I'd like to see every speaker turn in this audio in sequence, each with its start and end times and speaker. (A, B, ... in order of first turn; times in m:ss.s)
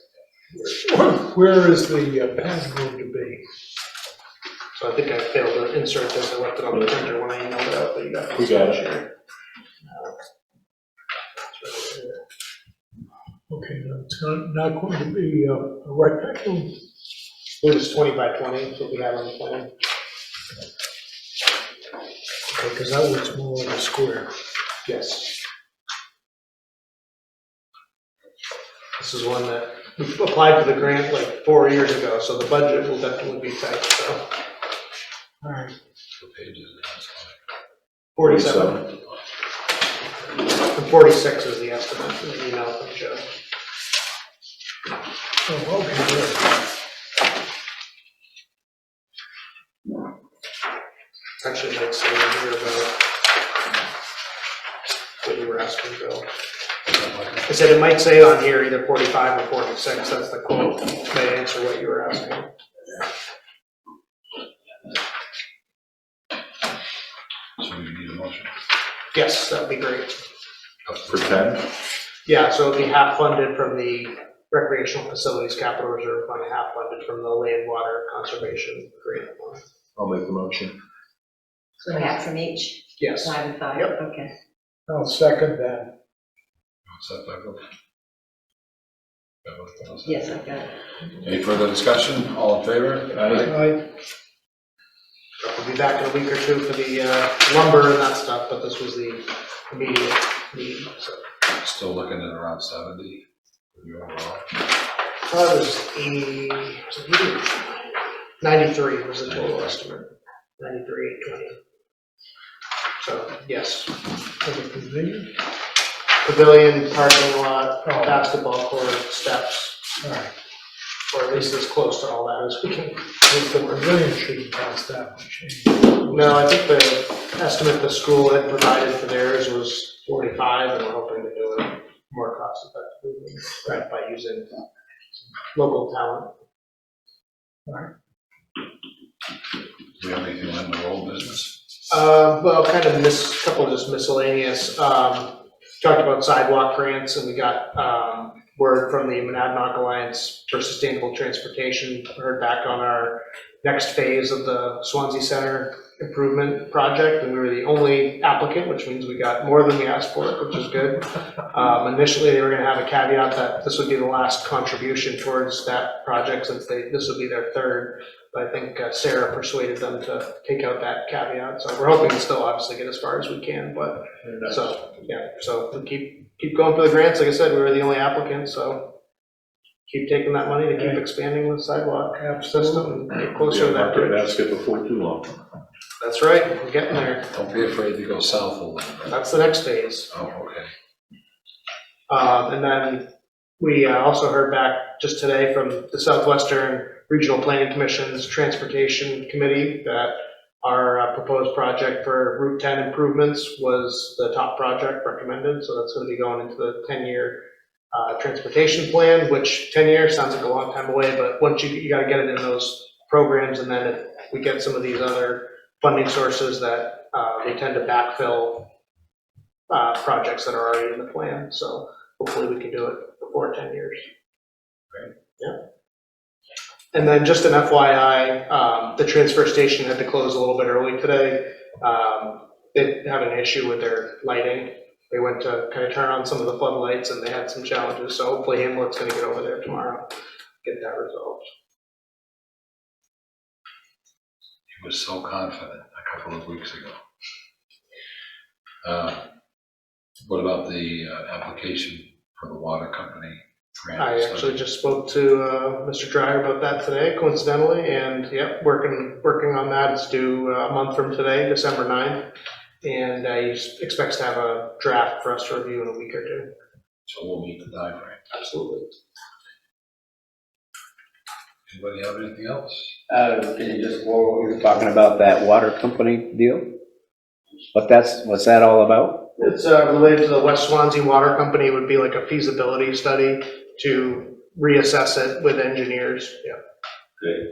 0:00.6-0:03.4 A
0:04.8-0:09.1 B
0:08.4-0:08.8 C
0:09.8-0:10.2 B
0:11.4-0:12.2 B
0:13.5-0:16.8 A
0:17.6-0:19.7 B
0:22.5-0:24.3 A
0:24.9-0:25.3 B
0:29.0-0:34.2 B
0:35.4-0:35.8 A
0:36.2-0:37.4 D
0:38.2-0:38.8 B
0:38.2-0:38.9 C
0:40.6-0:43.3 B
0:45.5-0:46.6 A
0:51.4-0:53.0 B
0:55.2-0:56.3 B
0:56.9-0:57.5 D
0:57.5-1:02.5 B
1:07.6-1:08.5 D
1:09.1-1:10.2 B
1:10.9-1:11.3 D
1:11.1-1:11.6 C
1:12.3-1:19.6 B
1:20.0-1:20.8 C
1:21.8-1:24.3 E
1:23.0-1:24.0 B
1:24.9-1:25.9 A
1:26.9-1:27.6 D
1:29.4-1:30.4 D
1:30.0-1:30.7 E
1:31.2-1:33.5 D
1:33.2-1:33.5 C
1:33.4-1:33.8 A
1:35.4-1:41.2 B
1:41.6-1:43.2 D
1:43.8-1:44.5 D
1:45.3-1:51.6 B
1:49.3-1:49.8 D
1:53.0-1:54.0 B
1:54.4-1:55.3 A
1:56.2-1:59.9 B
1:57.8-1:58.3 A
2:00.0-2:00.3 A
2:01.1-2:03.3 B
2:03.3-2:06.5 A
2:06.1-2:14.5 B
2:15.5-2:16.3 B
2:20.0-2:21.6 D
2:21.9-2:58.9 B
2:59.9-3:04.2 B
3:00.7-3:01.0 A
3:02.2-3:02.9 A
3:03.3-3:05.4 C
3:06.0-3:07.3 B
3:07.3-3:09.2 D
3:09.1-3:10.1 B
3:10.1-3:10.7 D
3:12.1-3:13.1 B
3:13.6-3:38.7 B
3:39.7-3:44.1 B
3:46.9-4:00.1 B
4:00.6-4:01.5 B
4:04.7-4:07.0 D
4:08.8-4:09.2 D
4:10.2-4:14.6 D
4:14.0-4:22.3 B
4:22.8-4:26.5 B
4:27.1-4:28.2 D
4:28.3-4:29.0 B
4:31.7-4:33.0 D
4:33.1-4:36.6 F
4:37.7-4:39.2 F
4:39.4-4:46.6 B